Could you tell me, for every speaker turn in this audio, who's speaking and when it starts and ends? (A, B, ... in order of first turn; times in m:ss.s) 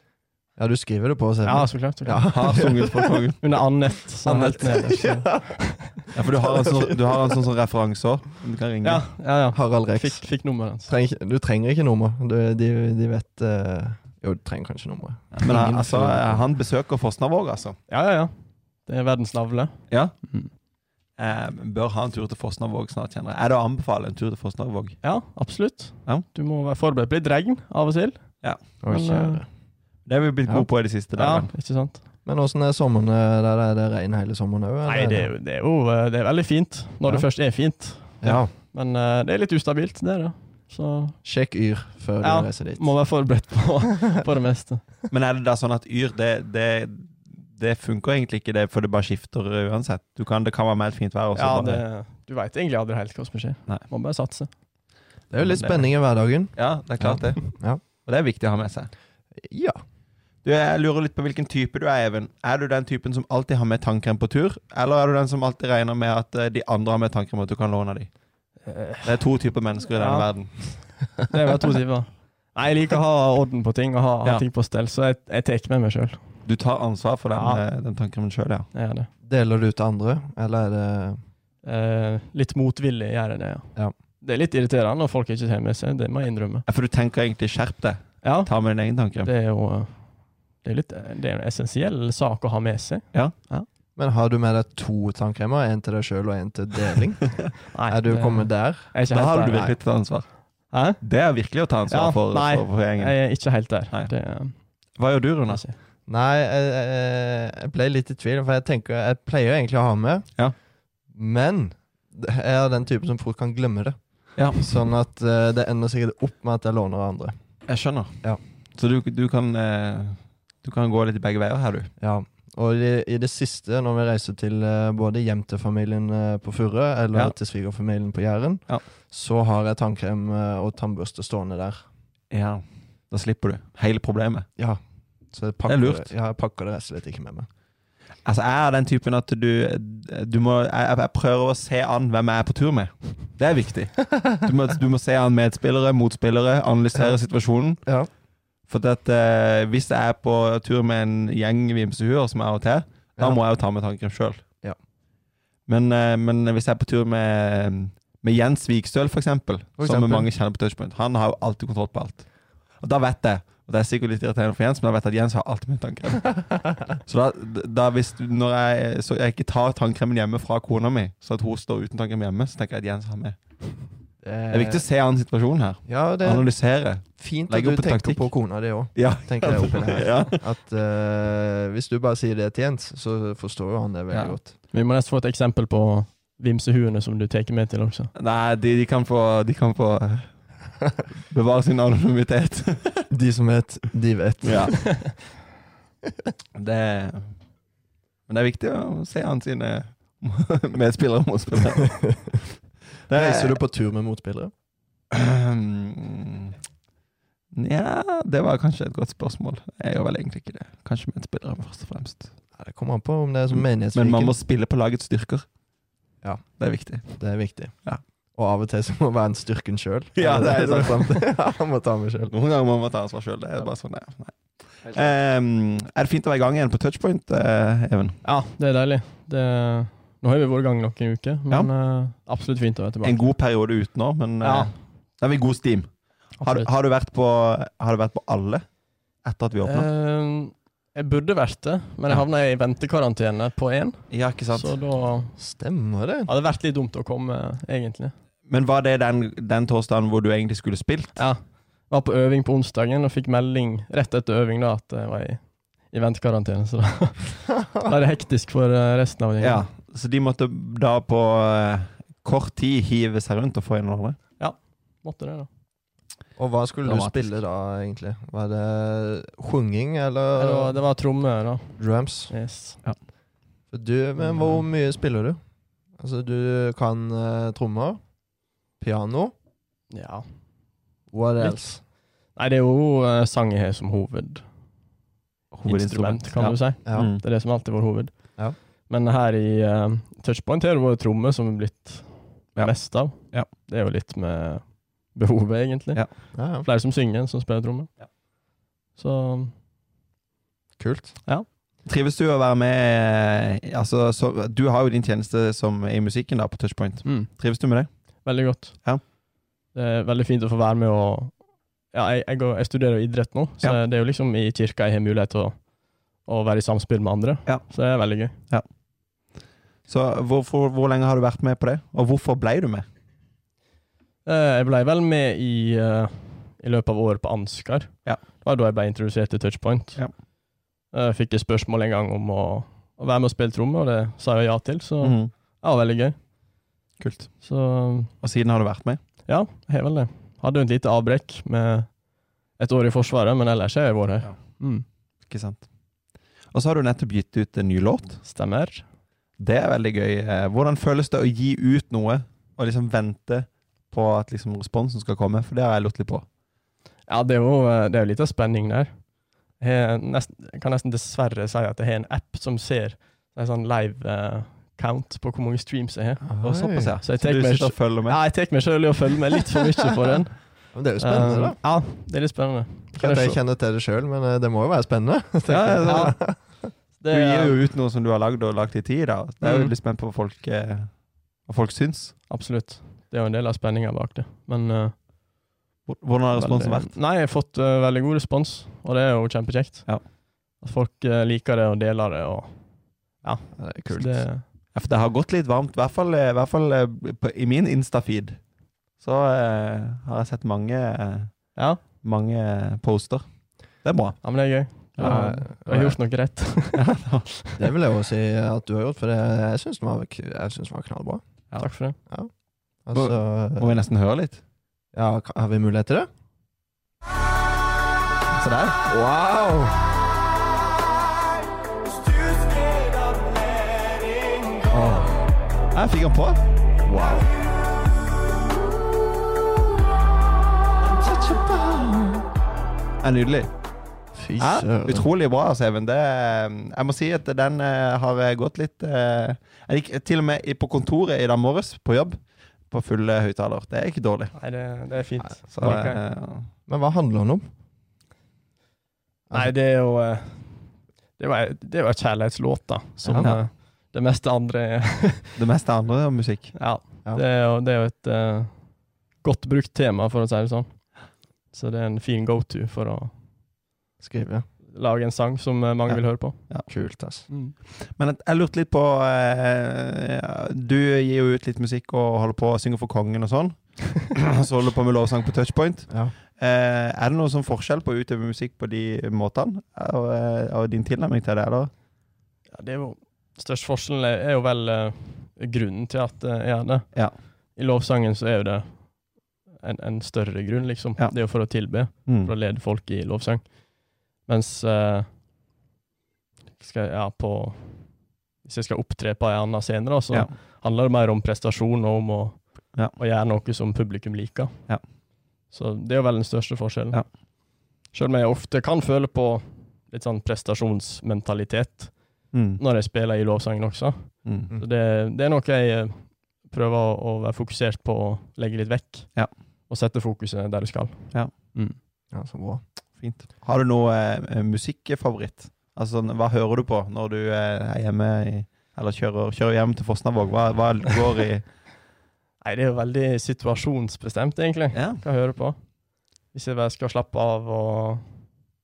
0:00.6-0:03.2 A
0:01.4-0:02.6 B
0:02.3-0:03.4 C
0:03.4-0:06.0 B
0:04.2-0:05.4 A
0:06.1-0:09.0 C
0:06.4-0:07.4 A
0:08.8-0:10.9 B
0:09.5-0:10.2 A
0:10.9-0:16.4 A
0:15.3-0:17.8 C
0:17.9-0:18.3 B
0:18.9-0:20.5 B
0:19.9-0:20.2 C
0:21.2-0:25.0 C
0:25.0-0:29.4 B
0:28.8-0:29.5 A
0:30.1-0:31.5 C
0:31.2-0:32.0 B
0:32.3-0:35.3 A
0:34.9-0:41.2 B
0:38.2-0:38.5 A
0:41.2-0:42.9 A
0:42.2-0:44.9 B
0:45.1-0:51.8 C
0:51.4-0:54.5 B
0:55.3-0:57.8 A
0:55.4-0:55.9 C
0:56.6-0:58.9 C
0:59.4-0:59.8 A
1:00.4-1:08.1 C
1:08.6-1:09.2 B
1:09.0-1:10.6 C
1:10.0-1:16.2 B
1:16.5-1:18.7 C
1:17.3-1:17.6 B
1:18.7-1:19.1 B
1:19.2-1:21.2 A
1:21.6-1:26.6 B
1:26.7-1:29.3 C
1:28.2-1:33.7 B
1:34.0-1:38.9 A
1:37.7-1:39.8 B
1:39.1-1:40.4 C
1:40.7-1:41.0 B
1:41.0-1:43.2 C
1:41.9-1:44.6 B
1:45.0-1:45.6 C
1:45.5-1:45.8 B
1:46.1-1:50.3 A
1:51.1-1:54.0 A
1:54.4-1:54.6 C
1:54.5-1:57.3 A
1:57.7-1:58.2 C
1:58.8-2:01.9 C
2:02.0-2:11.8 A
2:12.3-2:14.5 C
2:15.3-2:17.5 A
2:15.7-2:16.1 C
2:18.2-2:27.8 C
2:27.8-2:28.1 A
2:28.7-2:34.4 C
2:33.2-2:33.4 A
2:35.7-2:42.3 C
2:39.8-2:40.3 A
2:42.8-2:53.4 C
2:54.2-2:54.8 A
2:54.5-2:58.3 C
2:55.9-2:56.5 A
2:57.1-3:04.6 A
2:59.0-3:00.4 C
3:04.1-3:04.4 C
3:04.7-3:08.1 B
3:08.2-3:10.3 C
3:11.3-3:13.1 C
3:13.1-3:14.9 A
3:14.4-3:14.8 C
3:16.6-3:17.3 C
3:18.3-3:22.2 C
3:22.0-3:22.4 A
3:23.1-3:23.6 C
3:23.1-3:24.5 A
3:25.1-3:26.6 C
3:27.5-3:32.3 C
3:32.6-3:34.4 A
3:33.5-3:35.5 C
3:36.2-3:37.7 A
3:36.6-3:37.1 C
3:38.4-3:42.3 A
3:40.2-3:41.2 C
3:42.3-3:48.2 C
3:48.2-3:53.2 B
3:53.0-3:58.6 C
3:54.4-3:54.7 B
3:56.4-3:56.7 B
3:59.2-3:59.9 C
3:59.6-4:05.4 B
4:04.1-4:04.8 C
4:05.4-4:06.3 A
4:06.3-4:08.1 B
4:08.5-4:11.2 C
4:11.2-4:19.6 B
4:19.4-4:24.2 C
4:24.4-4:25.5 B
4:26.4-4:30.8 A
4:26.8-4:27.3 C
4:30.4-4:32.8 B
4:31.8-4:32.3 A
4:33.7-4:35.4 A
4:34.2-4:34.6 B
4:36.0-4:38.0 A
4:38.8-4:39.3 A
4:39.9-4:40.3 B
4:41.1-4:41.8 A
4:41.4-4:44.4 B
4:45.5-4:47.2 C
4:45.7-4:58.1 B
4:46.9-4:47.2 A
4:52.6-4:53.5 C
4:56.3-4:56.7 A
4:59.0-4:59.5 B
5:00.8-5:01.2 A
5:01.8-5:07.9 C
5:07.0-5:07.3 B
5:08.2-5:08.9 B
5:09.7-5:18.4 B
5:17.5-5:17.7 C
5:19.9-5:22.8 C
5:24.2-5:30.0 B
5:30.9-5:36.2 B
5:35.0-5:35.3 C
5:37.0-5:37.3 C
5:37.4-5:38.1 B
5:38.2-5:39.0 C
5:39.3-5:42.0 B
5:42.6-5:44.8 B
5:45.3-5:45.7 C
5:46.5-5:48.2 C
5:48.2-5:48.9 B
5:49.4-5:56.2 C
5:57.1-5:59.0 B
5:59.6-6:06.3 B
6:06.2-6:07.0 A
6:06.4-6:08.2 C
6:07.0-6:13.4 B
6:10.7-6:11.6 A
6:13.0-6:16.6 A
6:15.5-6:16.2 C
6:15.8-6:17.6 B
6:17.1-6:22.2 C
6:19.4-6:19.7 B
6:22.3-6:25.0 B
6:25.9-6:26.9 C
6:26.3-6:34.4 B
6:33.6-6:34.3 A
6:34.7-6:38.4 C
6:39.0-6:43.2 C
6:41.6-6:41.8 B
6:43.8-6:44.3 C
6:44.2-6:46.9 B
6:45.0-6:45.2 C
6:45.0-6:46.0 A
6:46.7-6:47.3 C
6:47.4-6:47.7 B
6:47.6-6:51.2 A
6:51.6-6:52.0 B
6:52.0-6:52.3 A
6:52.8-6:53.8 A
6:52.9-6:54.4 C
6:54.9-6:56.1 A
6:58.3-6:58.8 C
6:58.9-6:59.9 A
7:04.7-7:05.2 A
7:05.7-7:06.4 C
7:06.8-7:07.3 A
7:11.0-7:12.2 A
7:13.0-7:13.5 C
7:14.2-7:15.1 A
7:14.4-7:24.3 C
7:24.4-7:26.0 B
7:25.2-7:25.9 A
7:25.5-7:26.5 C
7:26.7-7:27.4 A
7:29.3-7:35.4 B
7:33.0-7:33.3 A
7:33.2-7:33.4 C
7:35.4-7:36.6 C
7:36.6-7:43.2 B
7:44.0-7:44.5 A
7:44.7-7:46.7 B
7:45.9-7:46.7 C
7:46.7-7:47.3 A
7:47.3-7:47.6 B
7:47.8-8:01.7 C
8:02.5-8:15.1 B
8:12.0-8:12.3 C
8:16.6-8:24.6 B
8:25.5-8:27.2 B
8:27.9-8:41.8 B
8:32.3-8:32.6 C
8:34.3-8:34.5 C
8:42.1-8:42.6 A
8:43.0-8:51.5 C
8:52.4-8:55.7 B
8:54.7-8:55.0 C
8:56.3-8:58.3 B